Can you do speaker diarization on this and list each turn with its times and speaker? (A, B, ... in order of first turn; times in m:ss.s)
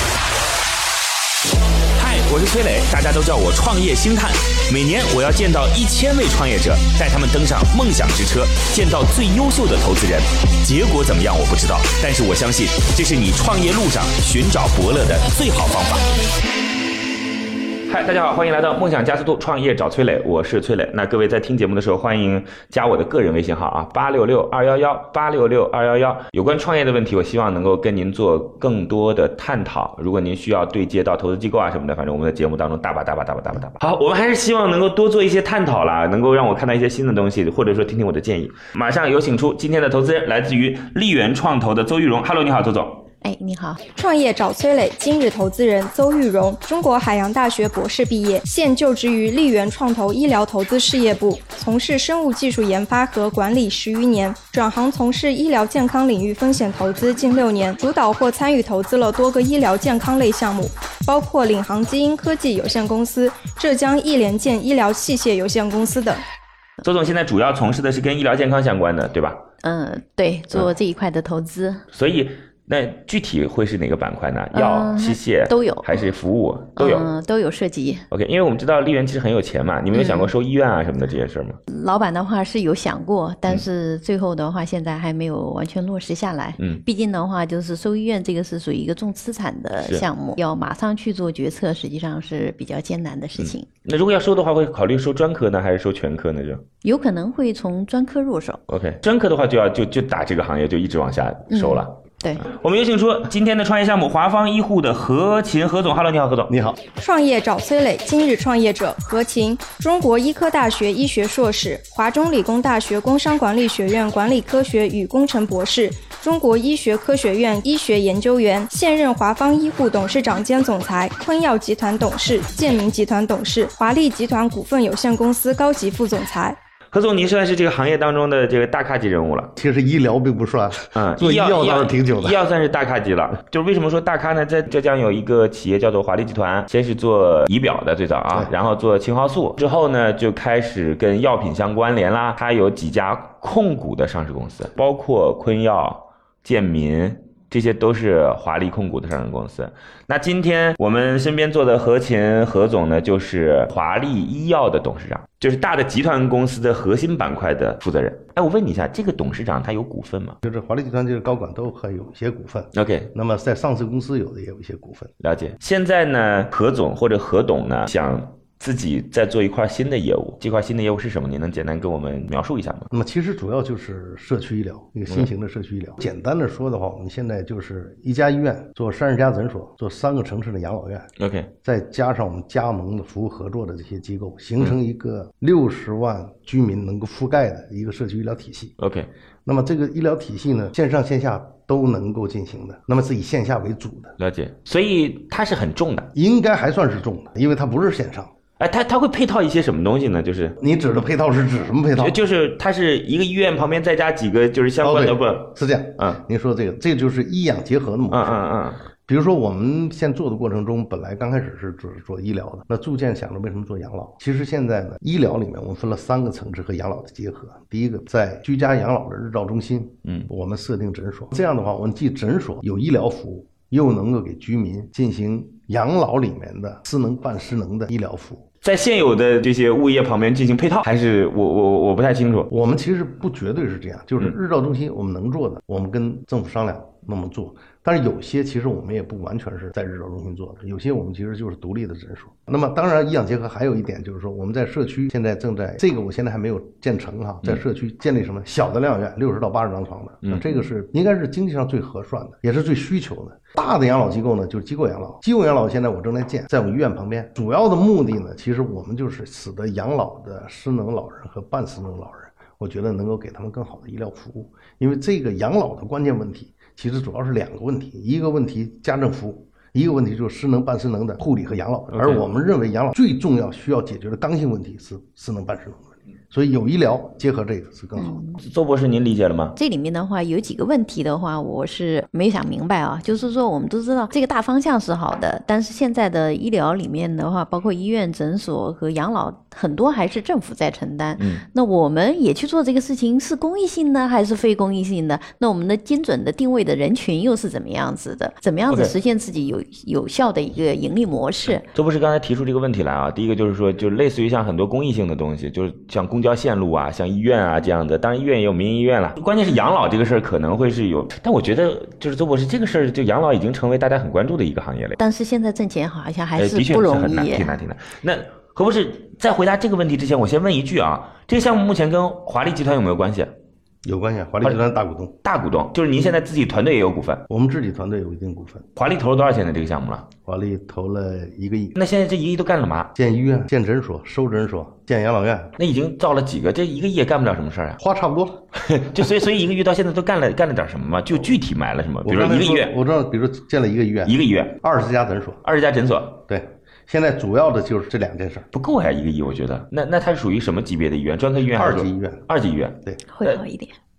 0:02.0-0:16.1 A
0:17.9-0:43.0 A
0:43.2-0:43.8 B
0:44.0-1:06.2 C
1:06.8-1:09.4 A
1:09.6-1:11.8 B
1:11.9-1:17.1 A
1:14.5-1:15.9 B
1:16.8-1:18.0 B
1:18.1-1:21.6 A
1:19.9-1:20.3 B
1:21.7-1:33.6 B
1:26.6-1:26.8 A
1:33.4-1:36.6 A
1:36.8-1:38.6 B
1:38.7-1:46.5 A
1:41.5-1:42.4 B
1:46.5-1:46.8 D
1:46.9-2:06.6 C
2:06.9-2:09.5 A
2:09.6-2:12.4 D
2:10.9-2:40.4 A
2:40.4-2:45.1 D
2:42.7-2:43.1 A
2:45.2-2:52.9 A
2:52.9-3:01.1 D
3:01.2-3:01.5 A
3:01.6-3:08.7 D
3:08.8-3:09.1 A
3:09.4-3:14.2 D
3:14.2-3:16.1 A
3:16.1-3:18.3 D
3:18.6-3:20.6 A
3:20.6-3:22.2 D
3:22.0-3:26.2 A
3:24.8-3:28.4 D
3:28.1-3:28.8 A
3:29.1-3:48.4 D
3:48.6-3:52.5 A
3:52.5-4:38.2 D
4:31.9-4:32.2 A
4:38.0-4:38.4 B
4:38.4-4:39.5 A
4:39.6-5:01.6 B
4:51.2-4:51.4 A
5:01.6-5:15.0 A
5:15.0-5:17.6 B
5:16.4-5:23.3 A
5:23.8-5:25.1 D
5:25.2-5:27.2 A
5:27.3-5:28.6 D
5:28.8-5:30.1 A
5:30.2-5:31.8 D
5:31.8-5:32.9 A
5:32.9-5:35.5 D
5:35.6-5:37.8 A
5:37.8-5:38.4 D
5:38.6-5:42.7 A
5:42.0-5:45.4 D
5:44.0-5:44.6 A
5:45.4-5:46.2 A
5:46.2-5:48.5 D
5:48.5-5:53.4 A
5:51.5-5:52.2 D
5:53.1-5:53.7 B